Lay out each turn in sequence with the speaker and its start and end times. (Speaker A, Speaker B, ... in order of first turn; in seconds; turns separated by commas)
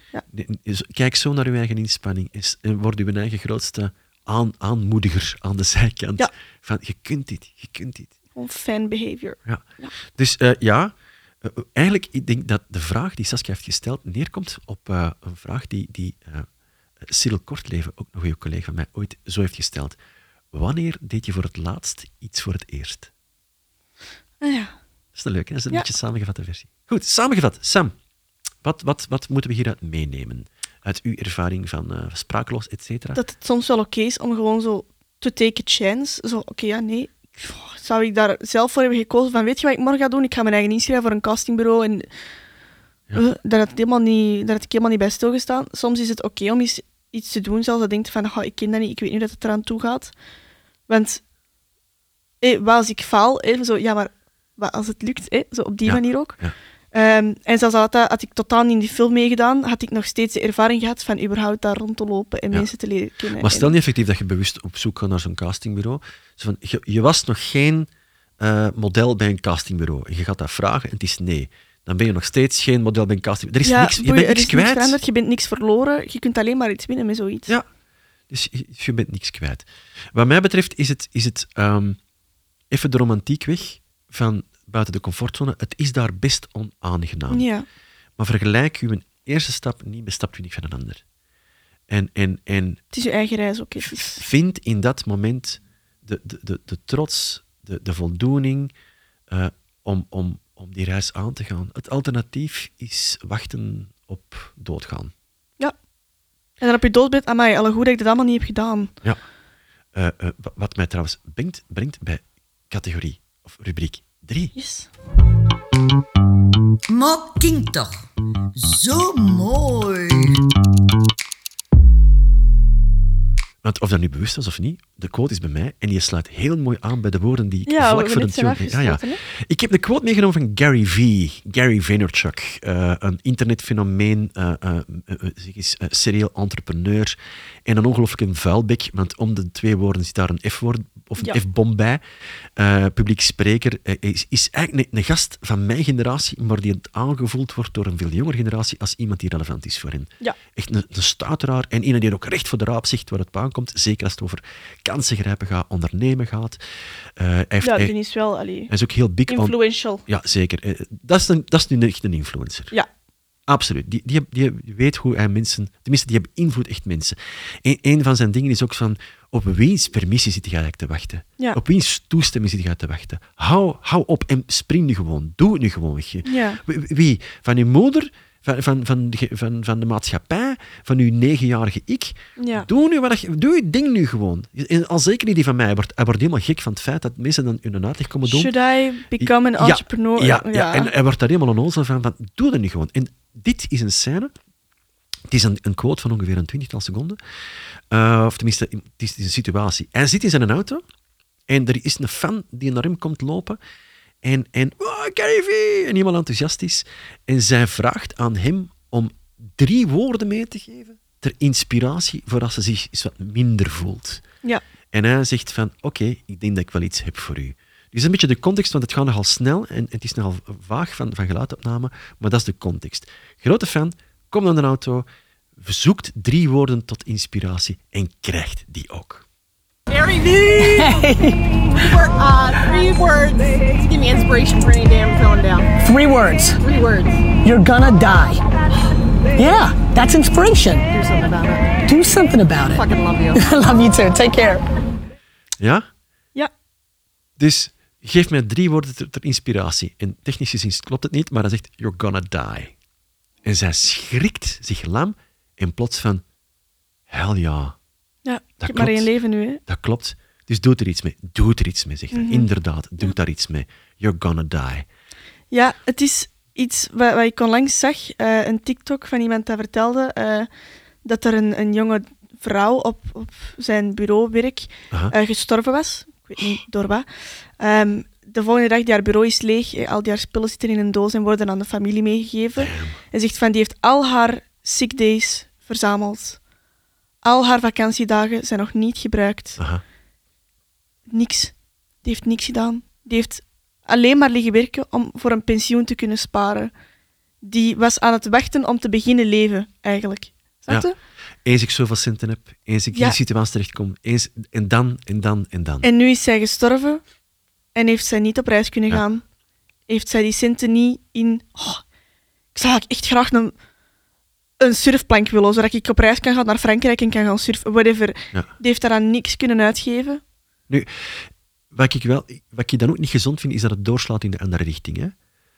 Speaker A: 0.3-8.1, Speaker B: 8.3-9.9, Speaker A: 9.4-16.5, Speaker A: 17.0-19.9, Speaker A: 20.5-23.1, Speaker B: 24.4-24.7, Speaker A: 25.1-27.9, Speaker A: 28.6-33.2, Speaker B: 33.1-42.1, Speaker B: 43.1-50.1, Speaker B: 50.9-51.2, Speaker B: 52.4-56.3, Speaker A: 55.8-56.5, Speaker B: 56.9-63.7, Speaker A: 63.4-67.9, Speaker A: 68.4-75.0, Speaker B: 73.6-77.5, Speaker A: 78.3-82.0, Speaker A: 82.7-87.4, Speaker B: 87.3-87.7, Speaker A: 88.2-91.0, Speaker A: 91.9-92.8, Speaker B: 92.9-94.2, Speaker A: 93.8-98.7, Speaker A: 99.3-105.1, Speaker B: 106.6-108.9, Speaker A: 109.9-114.5, Speaker B: 114.5-114.9, Speaker C: 116.9-120.4, Speaker A: 123.6-142.0, Speaker B: 127.7-129.2, Speaker A: 142.6-156.6, Speaker A: 157.2-157.9, Speaker B: 157.6-158.7, Speaker A: 158.7-162.7, Speaker B: 159.3-160.0, Speaker A: 163.5-188.5, Speaker B: 176.2-176.6, Speaker B: 182.4-182.7, Speaker B: 188.2-190.9, Speaker A: 189.2-194.3, Speaker A: 195.3-197.2, Speaker A: 197.9-200.8, Speaker A: 201.5-203.6, Speaker A: 204.2-214.2, Speaker A: 214.9-225.1, Speaker A: 225.6-229.2, Speaker D: 229.9-235.7, Speaker E: 230.6-231.4, Speaker E: 235.8-236.6, Speaker D: 236.6-237.2, Speaker E: 237.4-238.4, Speaker E: 239.3-240.9, Speaker D: 240.9-241.8, Speaker E: 241.9-244.6, Speaker D: 242.6-243.7, Speaker A: 245.6-245.8, Speaker A: 247.4-252.7, Speaker A: 253.4-256.2, Speaker A: 257.1-257.8, Speaker B: 258.2-259.6, Speaker A: 258.6-259.1, Speaker A: 259.6-264.9, Speaker B: 262.1-262.5, Speaker B: 265.5-270.5, Speaker B: 271.0-286.4, Speaker A: 282.6-283.0, Speaker B: 287.2-289.6, Speaker A: 289.6-289.8, Speaker B: 291.1-296.7, Speaker B: 297.4-300.9, Speaker A: 301.4-305.9, Speaker B: 305.8-307.0, Speaker B: 307.7-309.2, Speaker B: 309.9-311.8, Speaker B: 312.5-313.5, Speaker B: 314.6-320.2, Speaker A: 320.7-325.1